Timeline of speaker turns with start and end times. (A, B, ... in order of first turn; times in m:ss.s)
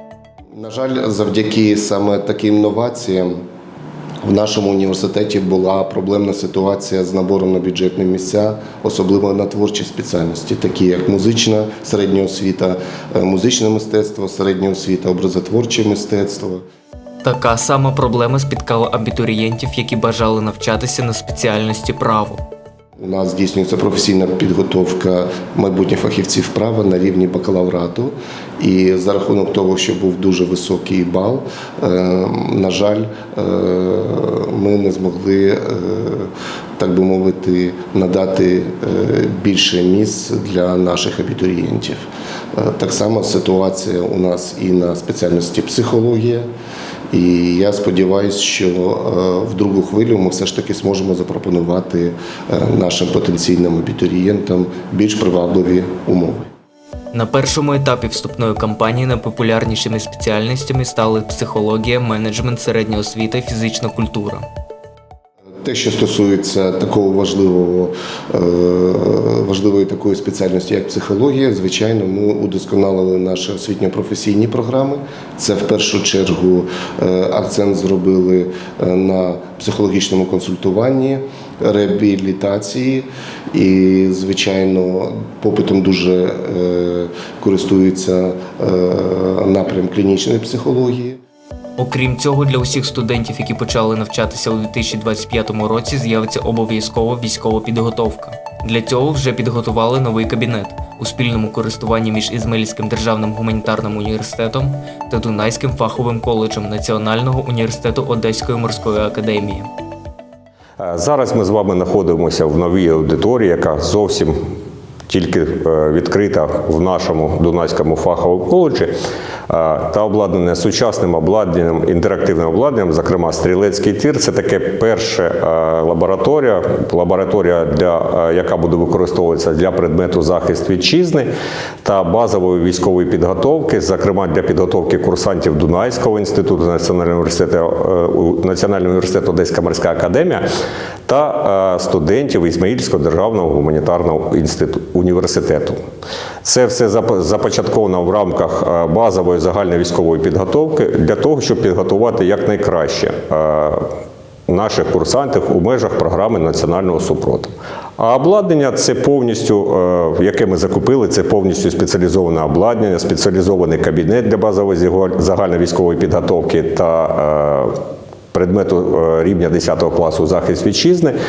0:00.6-0:03.4 A
0:04.2-0:16.6 A
0:17.2-0:22.4 B
0:23.0-0:46.5 A
0:47.1-0:56.5 A
0:57.1-1:04.4 B
1:05.6-1:31.2 A
1:31.8-1:49.7 B
1:50.8-1:54.3 C
1:55.1-1:58.9 C
1:59.5-2:11.3 C
2:11.8-2:20.4 C
2:21.1-2:25.8 C
2:26.4-2:33.9 C
2:34.5-2:47.7 C
2:48.3-2:51.1 C